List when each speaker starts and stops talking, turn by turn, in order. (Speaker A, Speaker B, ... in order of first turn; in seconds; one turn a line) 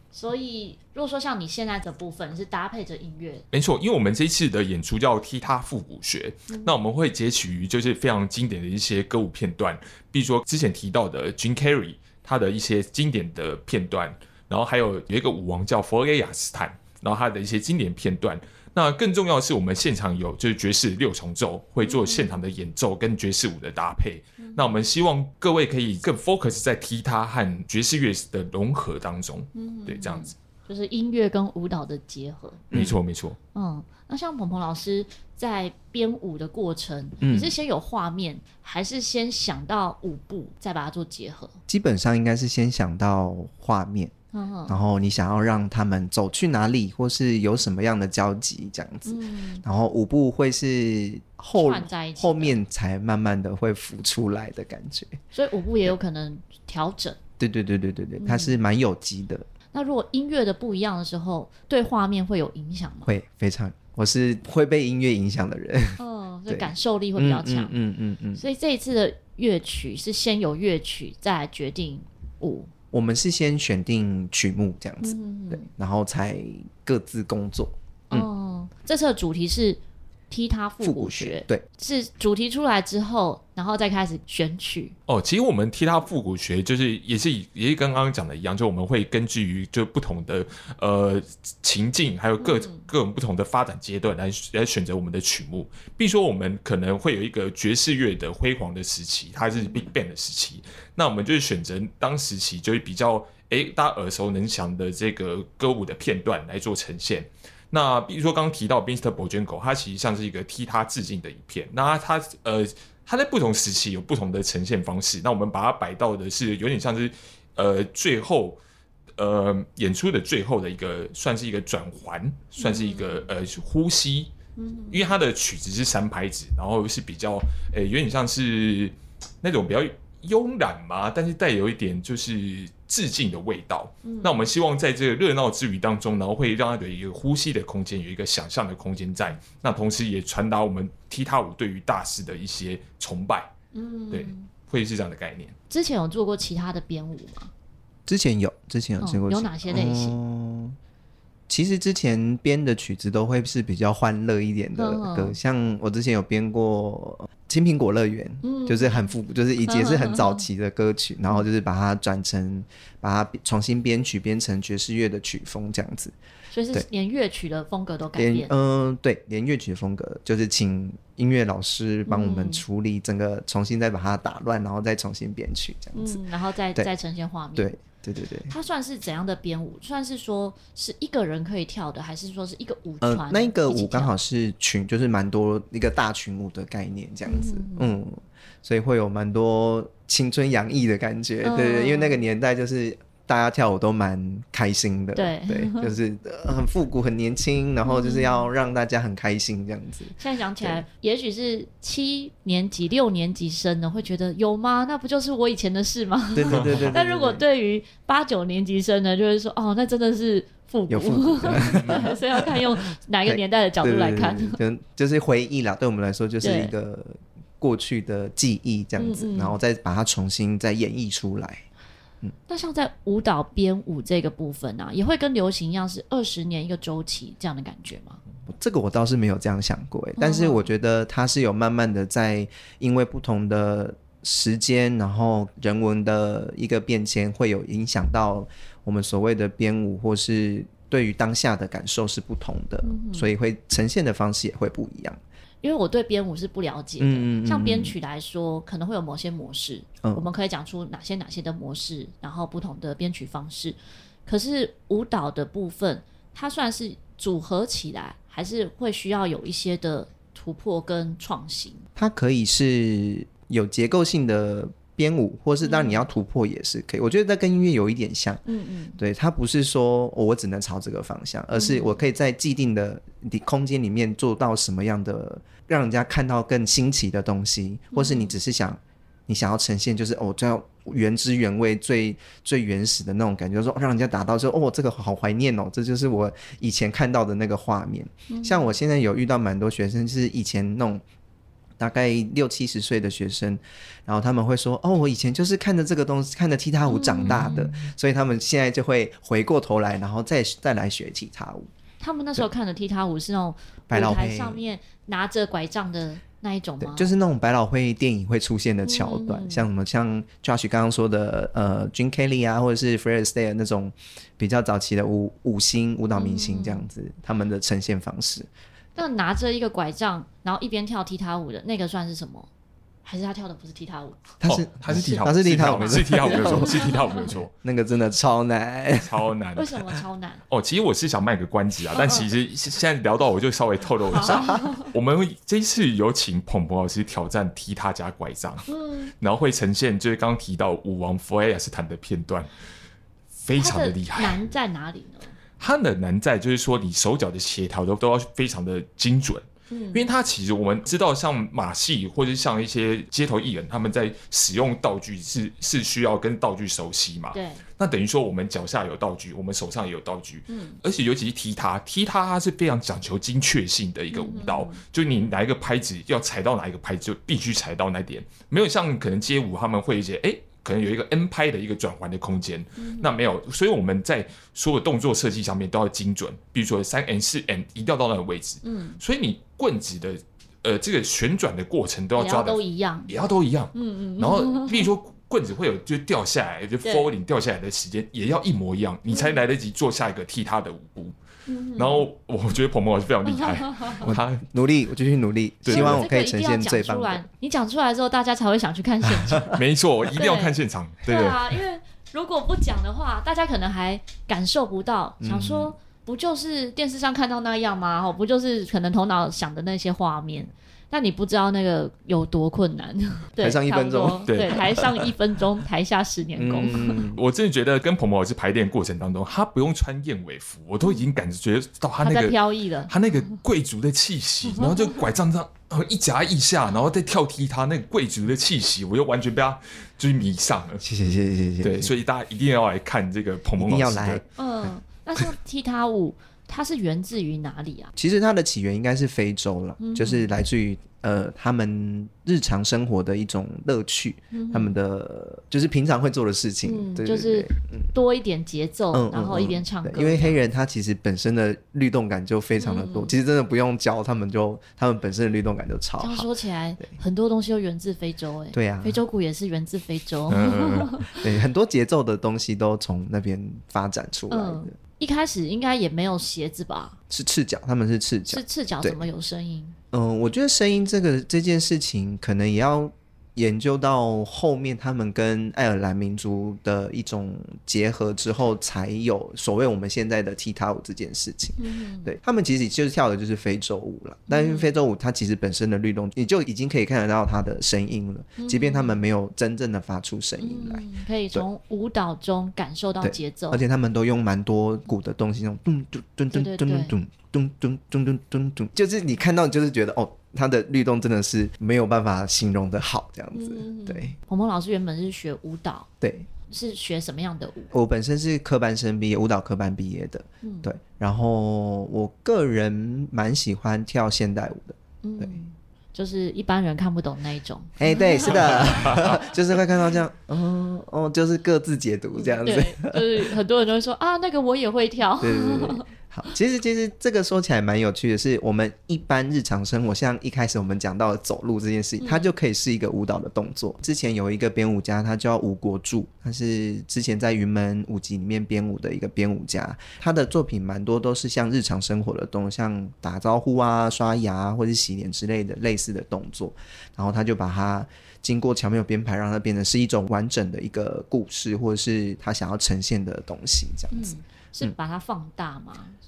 Speaker A: 0.1-3.4
Speaker B: 3.5-30.3
Speaker A: 6.5-6.7
Speaker A: 21.8-22.4
Speaker A: 24.4-24.8
Speaker A: 29.5-32.8
Speaker B: 32.7-33.4
Speaker A: 33.5-41.5
Speaker C: 37.2-37.5
Speaker C: 41.7-44.1
Speaker A: 44.3-44.8
Speaker C: 44.7-55.2
Speaker A: 49.0-49.6
Speaker A: 51.5-52.6
Speaker A: 55.3-57.2
Speaker C: 57.4-59.5
Speaker A: 58.2-58.6
Speaker A: 59.7-63.1
Speaker C: 63.0-68.4
Speaker A: 66.0-67.7
Speaker A: 68.4-72.7
Speaker C: 72.9-77.7
Speaker A: 75.0-75.7
Speaker A: 78.1-85.0
Speaker C: 80.8-81.6
Speaker B: 85.1-118.6
Speaker A: 92.4-92.8
Speaker A: 99.5-99.9
Speaker B: 119.2-124.3
Speaker A: 122.6-123.3
Speaker A: 124.5-125.1
Speaker B: 124.9-143.5
Speaker A: 134.0-134.5
Speaker A: 143.7-144.5
Speaker B: 144.1-145.5
Speaker A: 145.7-147.5
Speaker C: 148.1-150.8
Speaker A: 149.0-150.2
Speaker C: 151.5-166.1
Speaker A: 154.8-155.3
Speaker A: 158.4-159.1
Speaker A: 159.7-160.4
Speaker A: 166.5-168.5
Speaker C: 168.2-176.2
Speaker A: 172.1-172.6
Speaker A: 175.9-177.8
Speaker C: 177.6-178.5
Speaker A: 178.5-184.1
Speaker C: 183.0-200.8
Speaker A: 187.3-187.9
Speaker A: 191.4-192.2
Speaker A: 195.1-195.9
Speaker A: 197.8-198.5
Speaker A: 200.2-214.6
Speaker C: 206.3-207.4
Speaker B: 206.5-206.8
Speaker C: 210.9-212.7
Speaker B: 211.6-212.1
Speaker C: 213.2-221.6
Speaker A: 216.4-216.7
Speaker A: 219.0-219.6
Speaker A: 222.5-228.2
Speaker C: 228.5-245.2
Speaker A: 230.2-230.7
Speaker A: 242.8-243.3
Speaker A: 245.6-261.8
Speaker C: 247.0-247.9
Speaker C: 261.9-268.4
Speaker A: 265.6-266.0
Speaker A: 268.4-269.0
Speaker C: 269.0-291.0
Speaker A: 271.5-272.0
Speaker A: 277.9-278.4
Speaker A: 288.3-288.7
Speaker C: 291.8-301.7
Speaker A: 296.9-297.7
Speaker B: 297.2-297.6
Speaker A: 302.0-307.1
Speaker C: 303.9-304.6
Speaker C: 306.8-318.5
Speaker A: 308.9-309.7
Speaker A: 316.1-316.8
Speaker A: 318.9-322.5
Speaker A: 323.0-324.4
Speaker C: 324.4-327.0
Speaker B: 324.4-327.5
Speaker A: 324.9-327.2
Speaker C: 327.6-329.3
Speaker B: 329.0-329.8
Speaker A: 329.5-330.4
Speaker B: 330.5-338.7
Speaker A: 331.9-332.3
Speaker A: 334.1-334.9
Speaker A: 338.7-339.1
Speaker B: 339.2-342.5
Speaker B: 343.4-344.4
Speaker A: 343.6-345.3
Speaker B: 345.6-391.1
Speaker A: 349.7-350.1
Speaker A: 357.3-357.6
Speaker A: 360.5-360.8
Speaker A: 364.1-364.8
Speaker A: 372.8-373.1
Speaker A: 378.6-379.0
Speaker A: 382.1-383.1
Speaker A: 383.7-384.9
Speaker A: 386.8-387.1
Speaker A: 389.1-389.4
Speaker A: 391.5-392.1
Speaker B: 391.8-394.4
Speaker A: 393.2-394.0
Speaker C: 394.0-397.2
Speaker B: 395.6-396.0
Speaker A: 395.7-399.6
Speaker B: 399.5-401.6
Speaker A: 400.1-417.0
Speaker C: 405.2-405.7
Speaker C: 413.4-414.3
Speaker B: 414.3-414.8
Speaker C: 416.4-417.2
Speaker B: 417.1-430.8
Speaker A: 422.0-422.9
Speaker C: 430.8-431.9
Speaker B: 431.6-434.2
Speaker C: 433.6-434.2
Speaker A: 434.4-437.9
Speaker C: 437.9-447.9
Speaker A: 439.8-440.3
Speaker A: 444.3-444.7
Speaker A: 446.6-450.4
Speaker C: 448.9-456.3
Speaker A: 452.6-453.1
Speaker A: 456.0-461.2
Speaker C: 458.5-459.0
Speaker B: 460.3-461.0
Speaker C: 461.1-464.7
Speaker A: 464.3-467.0
Speaker C: 467.1-469.0
Speaker A: 468.3-469.8
Speaker C: 469.9-491.4
Speaker A: 481.6-482.1
Speaker A: 484.3-484.7
Speaker A: 488.4-489.0
Speaker A: 490.4-493.6
Speaker C: 493.0-504.1
Speaker A: 496.3-496.9
Speaker A: 503.3-505.9
Speaker C: 506.0-506.3
Speaker A: 506.5-507.7
Speaker C: 507.7-515.3
Speaker A: 510.4-510.7
Speaker A: 515.0-519.1
Speaker C: 517.8-523.3
Speaker B: 518.3-519.1
Speaker A: 522.2-525.9
Speaker C: 525.2-554.7
Speaker A: 532.0-532.3
Speaker A: 553.9-556.0